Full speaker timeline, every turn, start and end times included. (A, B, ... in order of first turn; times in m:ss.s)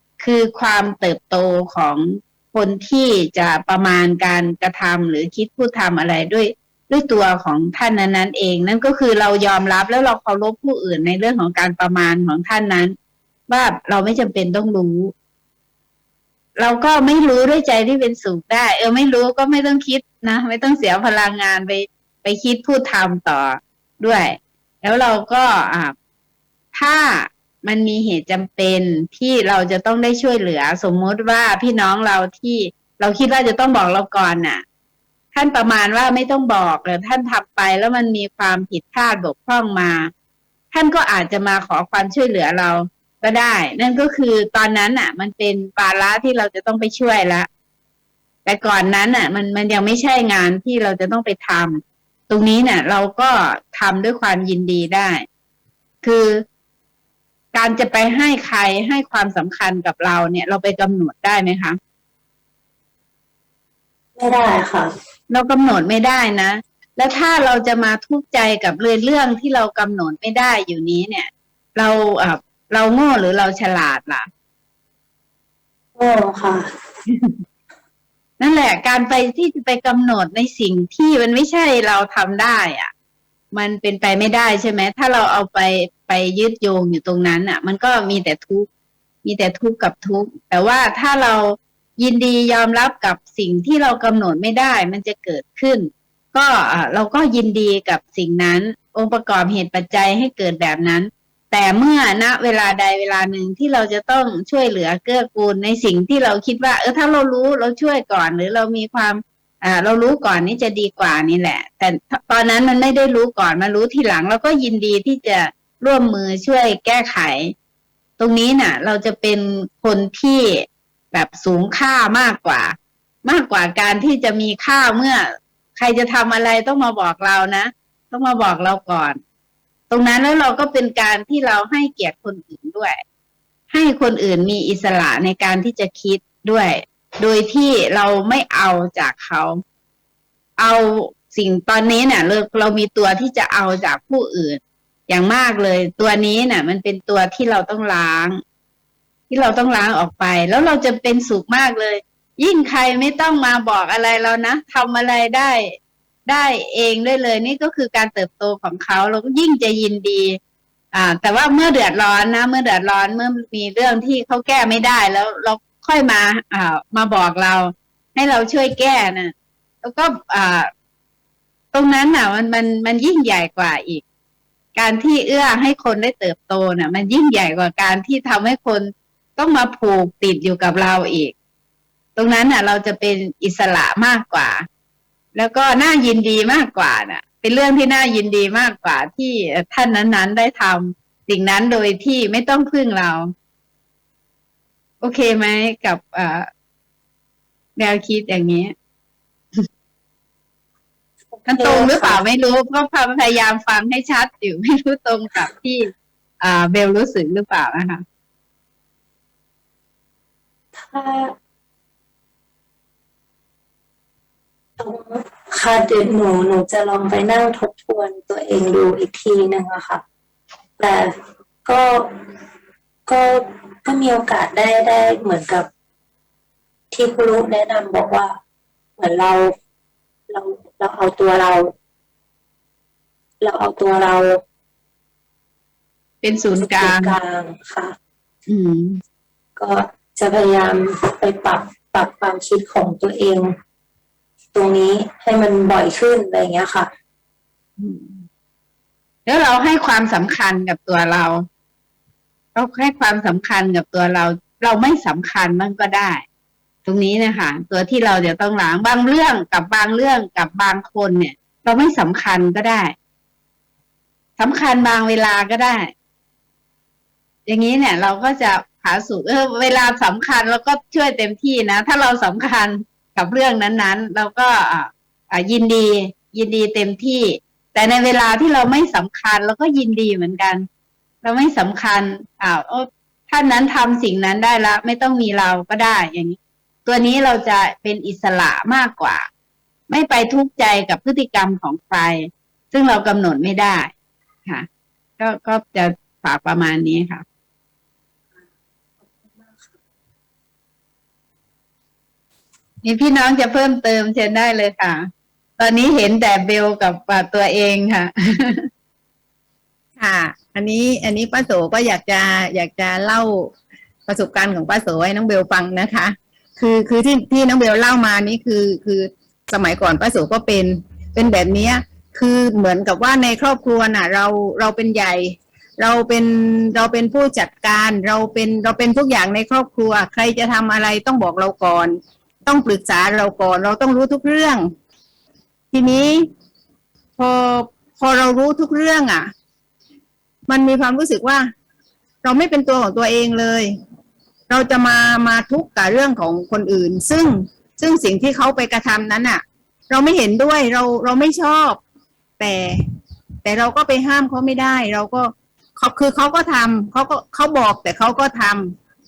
0:00.2-0:12.9 A
0:13.5-0:15.1 A
0:16.6-0:25.9 A
0:26.7-0:34.6 A
0:35.3-0:40.1 A
0:40.7-0:47.5 A
0:48.4-0:55.2 A
0:56.0-0:56.4 A
0:57.5-1:01.8 A
1:04.2-1:04.9 B
1:05.3-1:14.3 A
1:16.0-1:16.7 B
1:18.4-1:22.9 A
1:23.5-1:28.7 A
1:29.2-1:57.5 A
1:58.2-2:09.2 A
2:09.9-2:13.0 A
2:13.7-2:19.6 A
2:20.6-2:28.4 A
2:29.3-2:35.7 A
2:36.2-2:40.4 A
2:40.9-2:50.7 A
2:51.7-2:54.0 A
2:54.7-3:01.3 A
3:02.2-3:04.6 A
3:05.3-3:13.3 A
3:15.0-3:16.4 A
3:17.8-3:18.7 A
3:21.3-3:22.2 B
3:21.5-3:25.9 A
3:26.4-3:28.0 A
3:30.7-3:31.3 B
3:34.8-3:40.0 B
3:40.8-3:41.1 B
3:41.6-3:42.1 B
3:43.1-3:45.7 B
3:46.9-3:48.3 B
3:49.0-3:49.5 B
3:50.3-3:51.7 B
3:53.4-3:54.4 B
3:56.2-3:57.1 A
3:56.6-3:57.9 B
3:58.5-3:59.0 A
3:59.6-4:03.5 B
4:04.5-4:06.9 B
4:07.8-4:08.2 A
4:09.2-4:11.4 A
4:12.5-4:16.2 A
4:16.8-4:22.9 A
4:24.4-4:25.9 A
4:27.5-4:40.6 A
4:41.2-4:49.2 A
4:49.9-4:53.9 A
4:55.2-4:57.2 A
4:59.0-4:59.7 B
5:02.8-5:05.1 A
5:05.6-5:08.7 A
5:10.0-5:13.5 C
5:14.1-5:34.7 C
5:35.7-5:36.3 C
5:37.2-5:39.3 C
5:40.5-5:41.5 C
5:42.2-5:43.7 C
5:44.5-5:51.8 C
5:52.4-5:52.8 C
5:53.4-5:58.7 C